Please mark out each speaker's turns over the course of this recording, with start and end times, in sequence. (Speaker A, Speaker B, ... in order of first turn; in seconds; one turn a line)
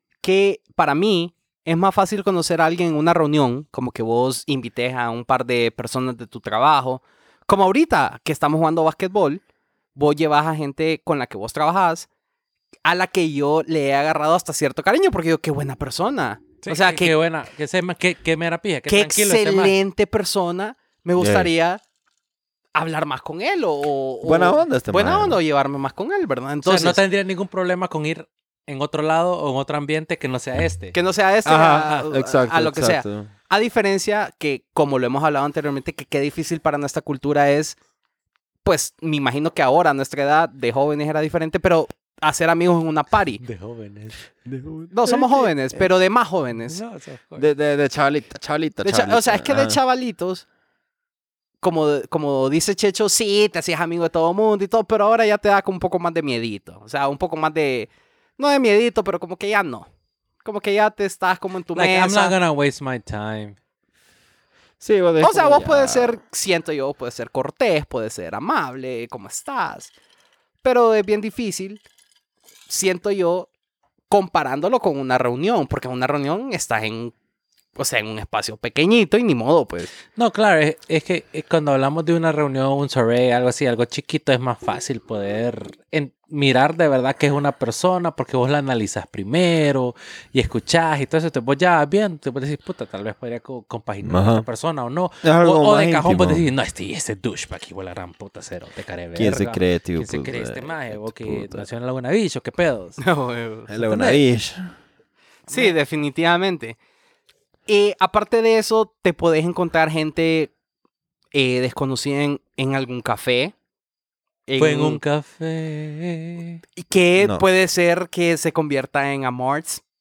Speaker A: 0.2-9.4
Speaker A: 10.0-12.1
Speaker A: 12.8-17.1
Speaker B: 16.6-19.8
Speaker A: 18.9-21.8
Speaker C: 21.2-21.5
Speaker A: 22.8-27.0
Speaker C: 24.2-25.4
Speaker B: 26.6-31.0
Speaker A: 30.9-37.8
Speaker C: 31.4-33.3
Speaker A: 38.6-43.4
Speaker B: 43.4-44.2
Speaker C: 44.5-45.5
Speaker A: 44.9-46.8
Speaker B: 46.7-47.5
Speaker C: 47.4-49.8
Speaker A: 48.8-50.5
Speaker A: 51.6-59.9
Speaker A: 60.4-62.4
Speaker B: 61.7-63.6
Speaker C: 64.8-66.2
Speaker A: 65.2-69.9
Speaker A: 70.6-71.8
Speaker A: 72.7-73.5
Speaker A: 74.1-77.1
Speaker A: 77.8-80.0
Speaker B: 80.2-103.0
Speaker C: 94.0-94.5
Speaker C: 95.2-96.5
Speaker C: 99.2-101.7
Speaker A: 103.0-103.7
Speaker C: 103.7-104.7
Speaker B: 103.8-104.2
Speaker A: 105.5-106.8
Speaker B: 105.5-105.8
Speaker A: 107.7-110.5
Speaker A: 111.3-113.5
Speaker A: 114.5-115.0
Speaker B: 114.6-116.6
Speaker A: 116.8-119.8
Speaker C: 117.2-117.5